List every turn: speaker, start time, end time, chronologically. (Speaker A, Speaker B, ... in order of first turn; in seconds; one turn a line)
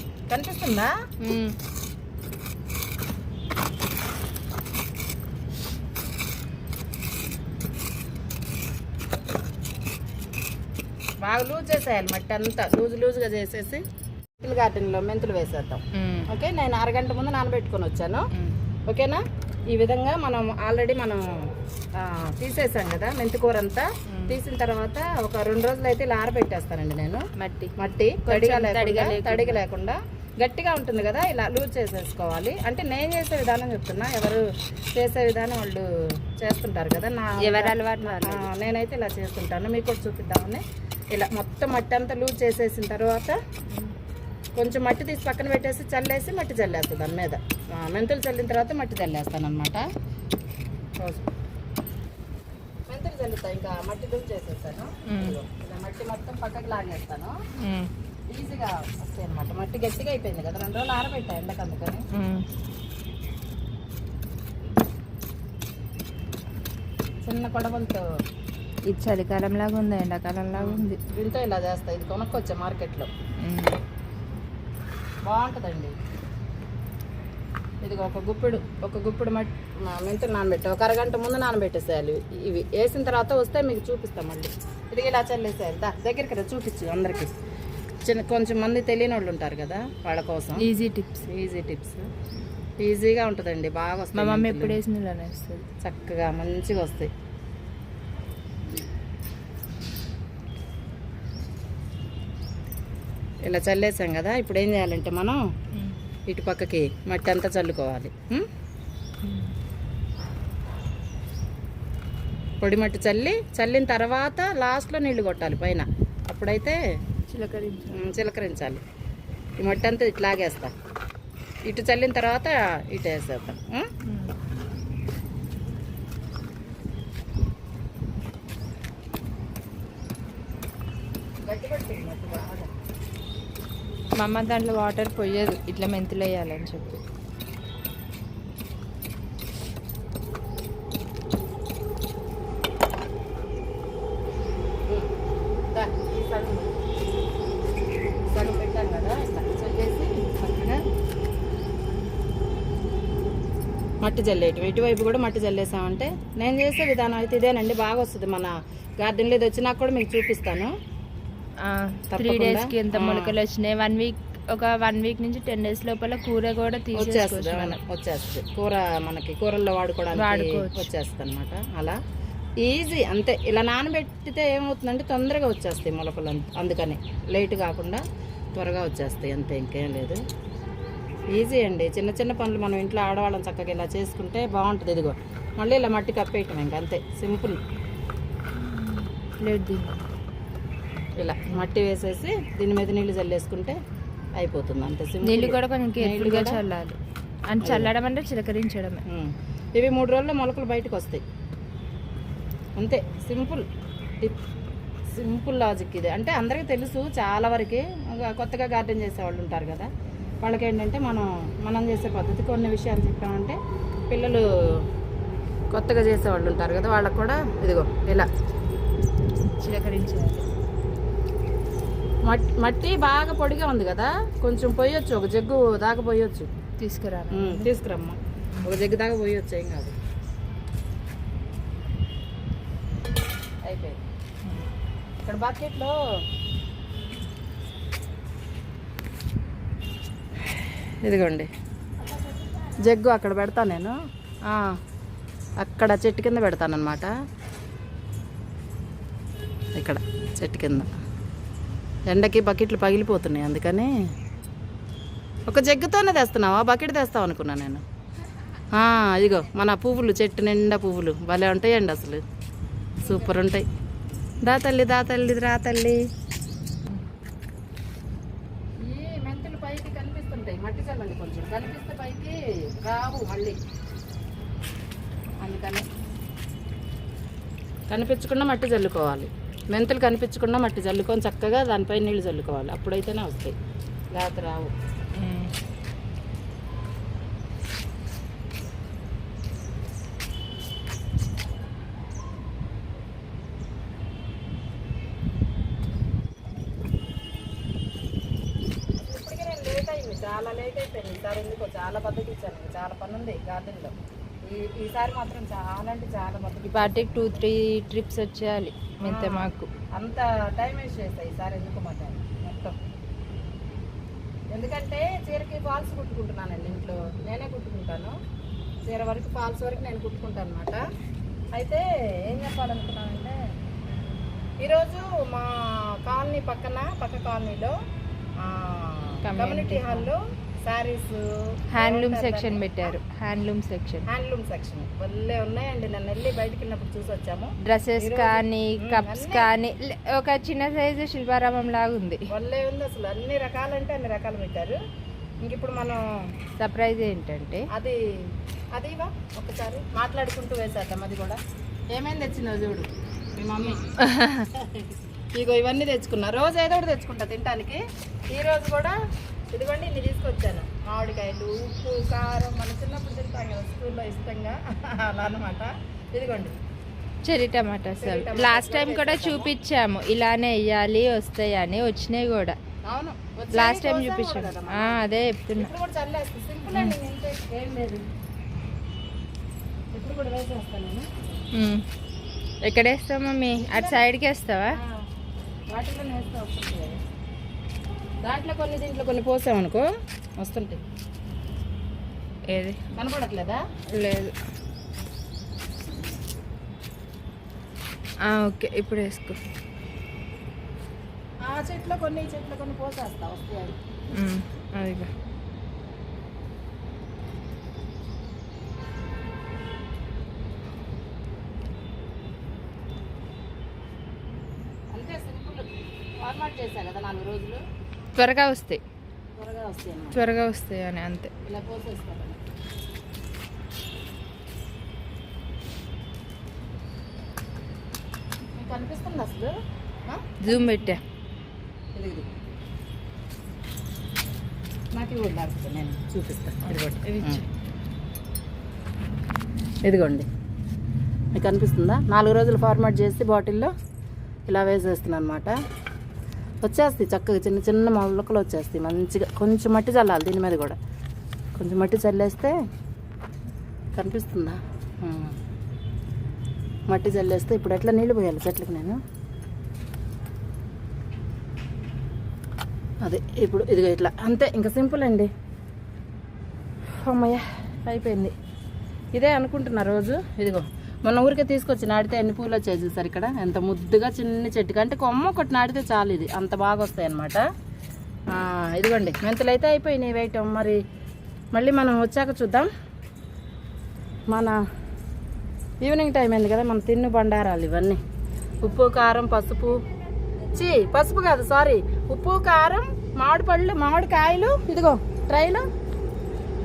Speaker A: 0.3-0.9
Speaker B: 1.2-1.6
Speaker A: 11.2-13.9
Speaker A: 14.4-18.3
Speaker B: 15.9-16.3
Speaker A: 18.9-27.3
Speaker B: 24.1-24.4
Speaker B: 27.4-27.8
Speaker A: 27.8-43.4
Speaker B: 28.3-29.6
Speaker B: 37.4-38.5
Speaker A: 44.6-49.9
Speaker A: 51.0-51.3
Speaker A: 52.9-57.4
Speaker B: 55.1-55.4
Speaker B: 57.6-57.9
Speaker A: 58.3-62.1
Speaker B: 62.1-62.5
Speaker A: 67.2-68.1
Speaker B: 68.9-71.0
Speaker A: 70.5-73.1
Speaker B: 73.4-73.8
Speaker A: 75.2-76.0
Speaker A: 77.8-87.4
Speaker A: 88.0-90.7
Speaker B: 90.6-91.3
Speaker A: 91.2-92.1
Speaker A: 92.8-94.8
Speaker B: 94.2-95.7
Speaker A: 95.8-97.1
Speaker A: 103.4-105.4
Speaker A: 106.3-108.5
Speaker B: 109.2-109.5
Speaker A: 112.6-116.8
Speaker B: 117.3-117.9
Speaker A: 117.9-118.8
Speaker A: 119.6-120.7
Speaker A: 121.7-123.9
Speaker B: 124.0-124.3
Speaker A: 131.4-132.7
Speaker B: 134.2-137.0
Speaker A: 144.9-145.1
Speaker A: 145.7-146.8
Speaker A: 148.3-150.8
Speaker A: 154.0-160.8
Speaker B: 161.6-167.8
Speaker A: 162.1-163.4
Speaker A: 167.0-172.0
Speaker B: 170.1-170.9
Speaker A: 172.6-178.0
Speaker A: 178.5-180.2
Speaker A: 181.3-187.6
Speaker B: 188.6-190.0
Speaker A: 191.2-193.8
Speaker A: 194.4-196.6
Speaker B: 195.2-199.1
Speaker A: 197.6-197.9
Speaker A: 199.1-201.2
Speaker A: 202.8-203.7
Speaker A: 205.1-209.9
Speaker A: 210.4-213.6
Speaker A: 214.1-214.9
Speaker A: 215.7-218.3
Speaker B: 219.4-220.5
Speaker A: 222.2-226.5
Speaker B: 226.8-227.7
Speaker A: 227.3-230.0
Speaker A: 233.6-234.0
Speaker A: 235.2-236.0
Speaker A: 240.4-241.5
Speaker B: 242.0-242.8
Speaker A: 242.8-244.8
Speaker A: 245.6-247.1
Speaker A: 249.7-250.9
Speaker A: 252.1-253.9
Speaker A: 255.5-257.8
Speaker A: 258.7-262.2
Speaker A: 263.0-263.7
Speaker B: 263.0-263.3
Speaker A: 264.4-266.1
Speaker A: 268.8-273.6
Speaker A: 275.4-275.9
Speaker A: 277.9-283.6
Speaker A: 284.1-284.7
Speaker B: 285.2-285.5
Speaker A: 299.0-307.4
Speaker B: 306.7-309.7
Speaker A: 309.0-312.8
Speaker A: 314.5-318.2
Speaker A: 318.8-320.9
Speaker A: 321.5-323.4
Speaker A: 324.6-327.8
Speaker A: 328.4-332.6
Speaker B: 329.2-330.1
Speaker B: 331.7-334.1
Speaker A: 334.1-339.5
Speaker B: 337.6-342.3
Speaker A: 342.3-344.8
Speaker A: 345.4-346.1
Speaker B: 346.6-347.7
Speaker A: 347.7-351.4
Speaker A: 351.9-354.0
Speaker B: 354.0-354.5
Speaker A: 354.5-359.0
Speaker A: 359.5-366.6
Speaker B: 367.2-372.6
Speaker A: 368.0-369.5
Speaker A: 372.9-375.0
Speaker B: 373.5-375.7
Speaker A: 375.6-378.1
Speaker A: 379.9-381.1
Speaker B: 381.5-381.8
Speaker B: 382.6-384.8
Speaker A: 383.6-384.1
Speaker A: 384.7-385.1
Speaker A: 385.7-387.0
Speaker A: 388.2-390.8
Speaker B: 392.5-392.9
Speaker A: 392.9-393.6
Speaker B: 393.9-394.3
Speaker B: 398.2-399.4
Speaker A: 401.4-403.8
Speaker B: 404.1-405.1
Speaker A: 414.9-417.6
Speaker B: 418.1-418.8
Speaker A: 419.4-420.3
Speaker B: 420.1-421.3
Speaker A: 421.4-422.4
Speaker A: 428.5-429.5
Speaker A: 430.1-430.8
Speaker B: 430.4-431.0
Speaker A: 431.9-432.4
Speaker A: 434.9-437.4
Speaker B: 437.0-437.4
Speaker A: 439.9-440.3
Speaker A: 441.3-443.7
Speaker A: 444.5-445.6
Speaker A: 446.6-450.8
Speaker A: 451.6-452.6
Speaker A: 453.9-455.4
Speaker A: 456.9-459.0
Speaker A: 463.0-465.3
Speaker A: 466.9-468.4
Speaker A: 469.1-477.4
Speaker A: 478.3-480.8
Speaker A: 481.5-482.7
Speaker A: 484.3-484.6
Speaker A: 485.8-488.0
Speaker A: 488.6-489.9
Speaker B: 489.8-490.6
Speaker A: 490.5-495.7